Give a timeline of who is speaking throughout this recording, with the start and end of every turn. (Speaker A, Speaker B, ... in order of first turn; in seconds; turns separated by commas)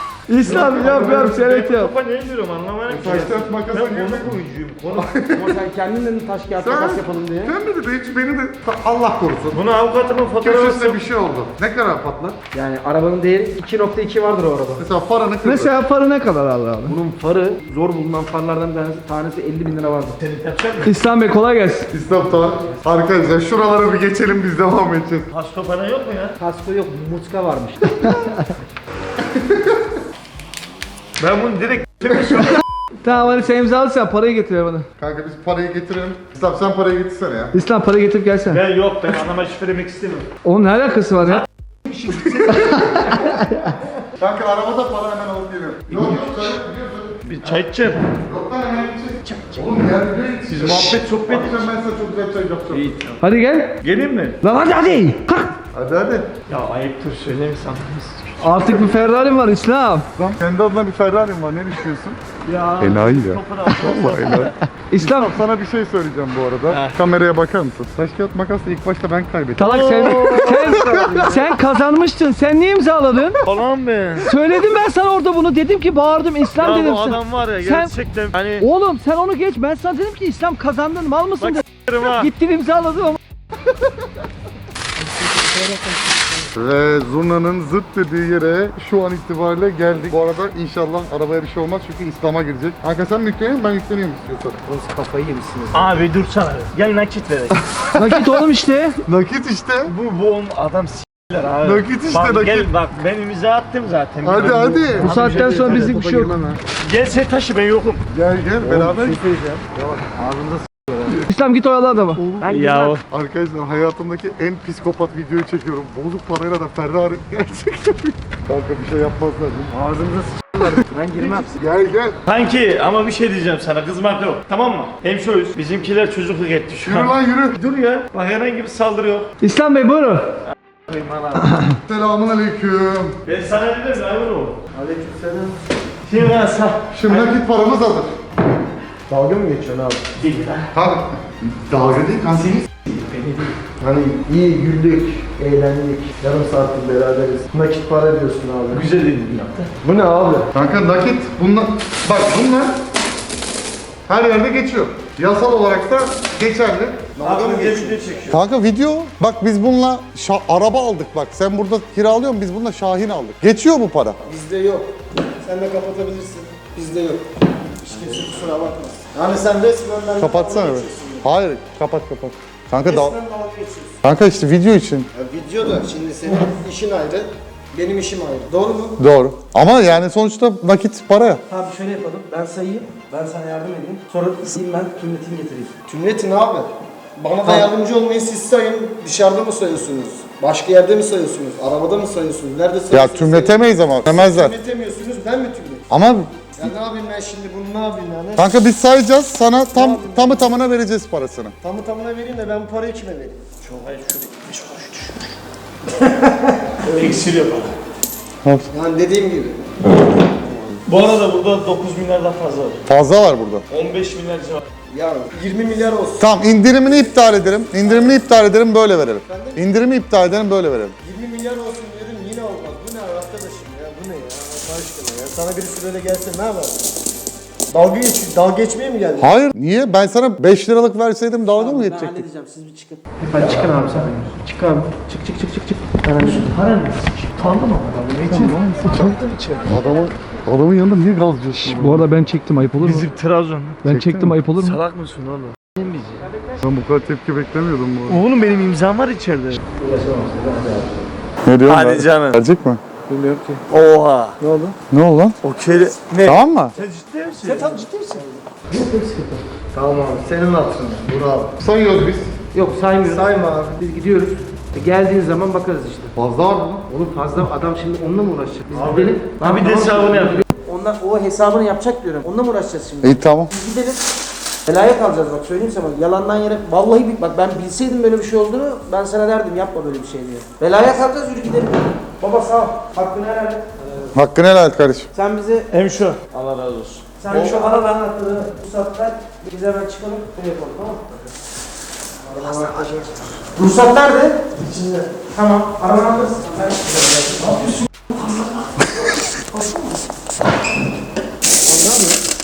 Speaker A: 0.3-1.9, Speaker B: 0.4-5.1, Speaker C: 2.9-4.4, Speaker C: 4.9-5.6, Speaker D: 5.3-7.5, Speaker C: 6.6-9.6, Speaker B: 9.5-11.0, Speaker C: 10.4-12.4, Speaker D: 12.5-14.8, Speaker C: 14.8-15.8, Speaker A: 15.4-17.0, Speaker D: 16.9-20.2, Speaker B: 20.2-21.0, Speaker A: 20.8-21.9, Speaker C: 21.9-25.3, Speaker B: 25.3-26.4, Speaker D: 26.4-28.2, Speaker A: 28.0-28.5, Speaker C: 29.2-29.8, Speaker B: 31.2-32.6, Speaker A: 33.0-34.9, Speaker C: 35.0-37.5, Speaker A: 37.5-38.6, Speaker B: 38.5-40.3, Speaker A: 40.4-41.5, Speaker B: 41.3-42.6, Speaker A: 42.5-43.7, Speaker C: 42.8-43.1, Speaker C: 44.1-53.0, Speaker B: 45.9-46.6, Speaker B: 47.3-48.1, Speaker B: 49.2-49.8, Speaker B: 50.5-51.7, Speaker B: 52.7-53.2, Speaker A: 53.2-53.8, Speaker B: 53.8-54.4, Speaker A: 54.4-55.6, Speaker C: 55.7-56.3, Speaker B: 56.5-58.7, Speaker A: 58.4-60.1, Speaker C: 60.2-62.2, Speaker B: 62.5-64.5, Speaker C: 62.8-71.0, Speaker A: 64.9-65.3, Speaker B: 66.7-67.0, Speaker A: 69.6-73.4, Speaker B: 69.6-70.5, Speaker D: 70.2-71.6, Speaker B: 73.4-74.3, Speaker A: 74.2-77.9, Speaker B: 76.6-78.7, Speaker A: 78.6-83.2, Speaker B: 81.4-82.3, Speaker D: 85.0-86.5, Speaker C: 86.5-94.6, Speaker D: 94.7-96.0, Speaker B: 95.7-97.6, Speaker A: 98.0-99.0, Speaker C: 99.1-99.9, Speaker B: 99.8-105.7, Speaker C: 101.6-102.7, Speaker C: 104.2-105.1, Speaker D: 105.0-106.6, Speaker A: 105.0-106.4, Speaker E: 105.7-106.0, Speaker B: 106.8-108.0, Speaker C: 108.1-109.2, Speaker D: 108.7-109.6, Speaker C: 109.8-111.2, Speaker A: 111.2-112.2, Speaker C: 112.2-119.7, Speaker D: 112.4-113.0, Speaker B: 112.4-113.0, Speaker D: 119.7-121.5, Speaker B: 121.2-121.6, Speaker C: 121.6-122.2, Speaker B: 122.3-129.3, Speaker C: 126.8-127.6, Speaker A: 129.4-130.3, Speaker B: 130.5-131.6, Speaker A: 131.4-131.7, Speaker C: 131.8-133.2, Speaker B: 133.2-134.6, Speaker E: 134.7-135.6, Speaker B: 136.1-137.3, Speaker C: 136.9-138.1, Speaker E: 139.1-140.1, Speaker B: 140.2-140.7, Speaker C: 140.7-142.7, Speaker B: 142.9-143.6, Speaker E: 143.8-148.9, Speaker B: 148.7-149.7, Speaker E: 149.8-150.5, Speaker C: 150.5-152.8, Speaker C: 154.1-157.2, Speaker E: 157.2-158.0, Speaker B: 157.2-158.4, Speaker C: 158.3-164.2, Speaker E: 164.2-167.2, Speaker E: 167.8-171.2, Speaker C: 170.2-173.2, Speaker E: 172.8-173.9, Speaker C: 174.0-175.1, Speaker E: 175.1-179.0, Speaker C: 179.0-181.4, Speaker D: 181.5-185.7, Speaker E: 185.9-195.8, Speaker D: 187.4-187.7, Speaker C: 192.9-194.6, Speaker C: 195.9-196.7, Speaker E: 196.6-198.5, Speaker C: 198.4-201.6, Speaker E: 199.7-200.5, Speaker E: 201.6-203.4, Speaker B: 203.6-205.3, Speaker B: 206.0-207.8, Speaker C: 208.4-208.7, Speaker E: 208.7-209.7, Speaker E: 210.3-210.8, Speaker B: 210.9-212.9, Speaker C: 212.9-213.7, Speaker B: 213.7-214.7, Speaker E: 214.9-216.2, Speaker C: 216.2-221.0, Speaker E: 217.8-218.2, Speaker E: 219.3-219.6, Speaker E: 221.0-226.8, Speaker E: 227.7-229.4, Speaker C: 229.2-232.3, Speaker D: 231.5-236.5, Speaker B: 233.3-234.1, Speaker B: 236.1-239.7, Speaker C: 238.3-242.1, Speaker A: 241.6-243.1, Speaker B: 242.8-243.9, Speaker A: 243.8-244.8, Speaker C: 243.9-244.4, Speaker B: 244.5-246.3, Speaker C: 246.6-248.2, Speaker B: 248.1-249.6, Speaker D: 249.8-251.1, Speaker C: 251.4-252.8, Speaker B: 251.7-252.4, Speaker D: 253.1-253.5, Speaker E: 253.1-253.6, Speaker B: 253.7-254.4, Speaker E: 254.4-254.8, Speaker C: 254.9-255.4, Speaker B: 255.4-256.1, Speaker C: 256.2-256.8, Speaker B: 256.7-257.9, Speaker D: 257.4-259.4, Speaker E: 259.7-261.5, Speaker C: 261.6-262.4, Speaker D: 262.5-266.1, Speaker E: 263.1-263.8, Speaker C: 266.1-266.8, Speaker D: 266.9-274.0, Speaker B: 269.1-270.5, Speaker C: 273.0-273.5, Speaker D: 274.7-283.9, Speaker C: 284.1-285.1, Speaker D: 285.1-285.7, Speaker B: 285.7-287.6, Speaker D: 287.2-291.0, Speaker D: 292.3-293.0, Speaker B: 292.4-293.1, Speaker D: 293.5-294.5, Speaker B: 294.6-295.1, Speaker D: 295.2-297.7, Speaker D: 299.5-299.9, Speaker D: 301.6-302.2